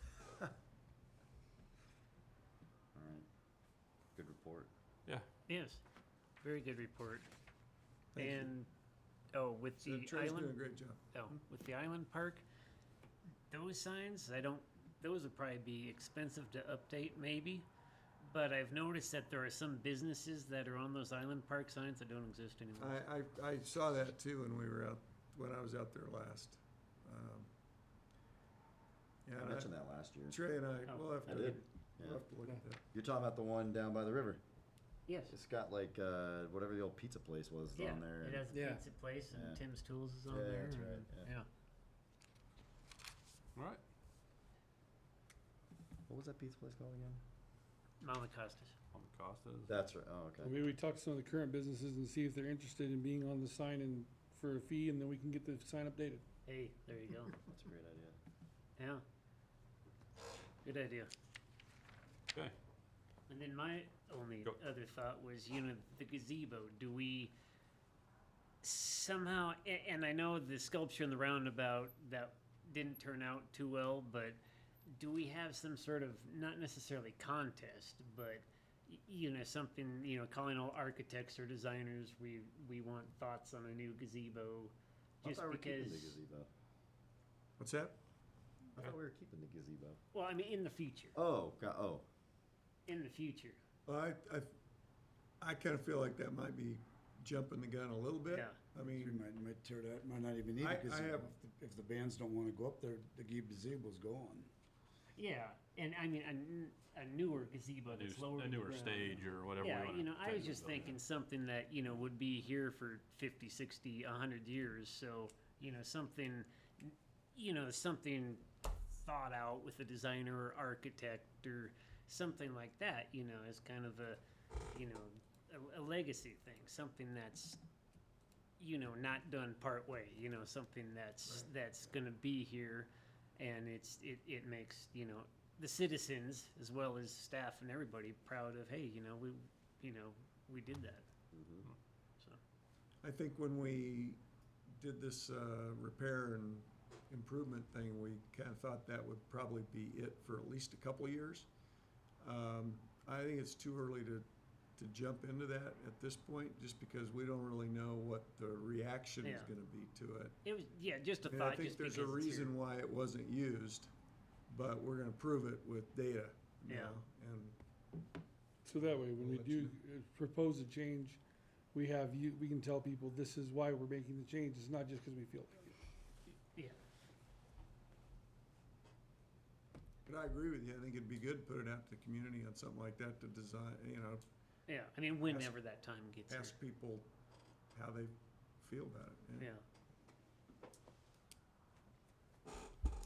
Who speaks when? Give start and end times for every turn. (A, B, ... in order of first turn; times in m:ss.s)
0:02.9-0:03.3 A
0:04.1-0:04.7 A
0:05.5-0:05.8 B
0:06.4-0:07.3 B
0:08.1-0:08.5 C
0:08.2-0:08.7 B
0:09.3-0:12.4 B
0:09.8-0:11.0 C
0:13.5-0:17.7 B
0:18.2-0:23.0 B
0:22.8-0:27.5 C
0:29.3-0:29.7 C
0:29.4-0:30.4 A
0:30.3-0:32.8 C
0:30.9-0:31.6 B
0:31.3-0:32.3 A
0:32.9-0:34.4 A
0:35.1-0:35.3 B
0:35.3-0:38.4 A
0:37.7-0:41.5 B
0:38.5-0:38.8 D
0:39.3-0:39.6 A
0:40.3-0:41.3 A
0:43.6-0:43.8 E
0:46.1-0:47.2 A
0:48.0-0:48.7 B
0:48.9-0:49.7 E
0:49.7-0:50.6 A
0:50.4-0:56.2 D
0:56.4-0:57.4 B
0:57.5-0:58.2 A
0:58.8-0:59.0 B
1:00.6-1:01.1 B
1:03.3-1:07.3 B
1:08.6-1:14.4 B
1:14.9-1:26.2 B
1:25.2-1:26.5 A
1:27.6-1:28.0 C
1:28.8-1:30.0 A
1:30.1-1:31.2 B
1:31.2-1:32.0 A
1:32.9-1:33.6 B
1:33.9-1:34.5 C
1:35.4-1:39.2 C
1:38.3-1:38.6 B
1:38.9-1:44.5 F
1:40.6-1:41.3 C
1:45.2-2:04.2 B
1:47.9-1:51.0 E
2:04.7-2:07.6 B
2:08.6-2:21.1 B
2:21.3-2:21.6 A
2:23.0-2:24.2 C
2:24.8-2:31.5 C
2:32.2-2:34.2 C
2:34.8-2:40.3 C
2:39.2-2:39.5 B
2:40.4-2:42.5 B
2:41.2-2:43.9 C
2:44.5-2:47.6 C
2:46.7-2:47.0 B
2:48.6-2:51.2 D
2:48.7-2:49.7 C
2:51.7-2:55.7 D
3:00.0-3:04.2 C
3:04.7-3:06.5 B
3:05.2-3:05.5 C
3:06.3-3:07.1 C
3:07.7-3:09.5 C
3:09.4-3:09.6 B